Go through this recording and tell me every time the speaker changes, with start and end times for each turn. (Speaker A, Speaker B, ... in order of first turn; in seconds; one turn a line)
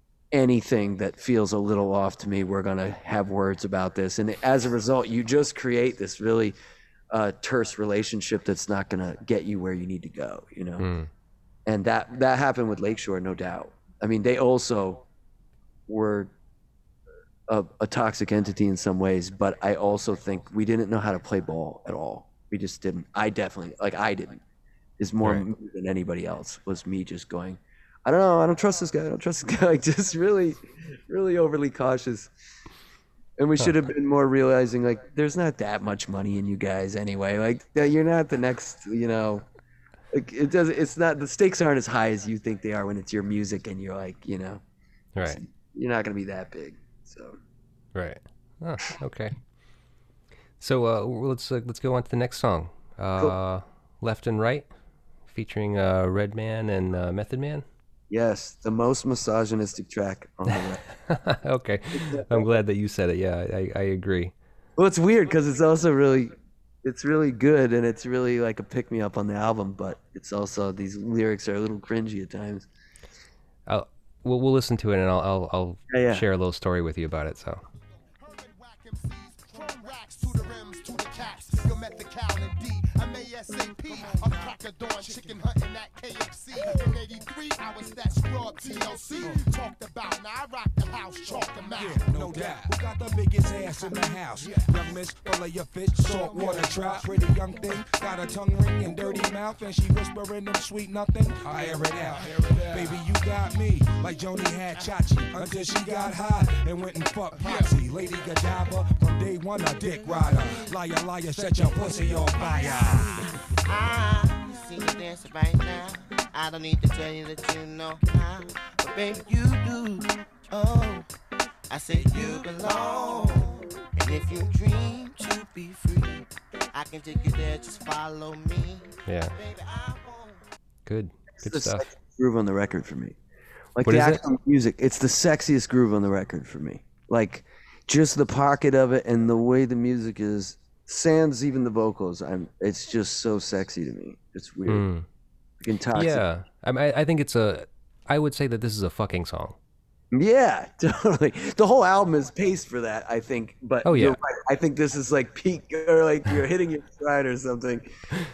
Speaker A: 0.3-6.5
Speaker A: 7.1-10.9
Speaker B: 10.8-11.1
Speaker A: 11.7-15.0
Speaker A: 15.9-16.3
Speaker A: 17.5-24.4
Speaker A: 25.0-32.3
Speaker A: 33.4-39.4
Speaker A: 40.1-44.6
Speaker B: 45.1-45.4
Speaker A: 45.2-47.4
Speaker B: 47.9-49.4
Speaker B: 50.6-54.7
Speaker B: 55.3-57.6
Speaker A: 58.1-60.8
Speaker B: 61.0-64.3
Speaker A: 62.0-62.4
Speaker A: 64.8-72.7
Speaker B: 73.7-77.6
Speaker A: 75.9-76.2
Speaker C: 78.2-92.5
Speaker D: 91.7-113.4
Speaker C: 93.7-94.8
Speaker C: 96.0-97.3
Speaker C: 107.4-107.8
Speaker E: 113.6-121.1
Speaker E: 121.7-130.4
Speaker B: 129.1-129.3
Speaker B: 130.8-131.9
Speaker A: 131.3-133.2
Speaker A: 133.7-144.8
Speaker B: 133.8-134.2
Speaker B: 144.7-145.1
Speaker A: 145.6-146.2
Speaker B: 145.9-149.6
Speaker A: 150.1-157.9
Speaker B: 153.8-154.2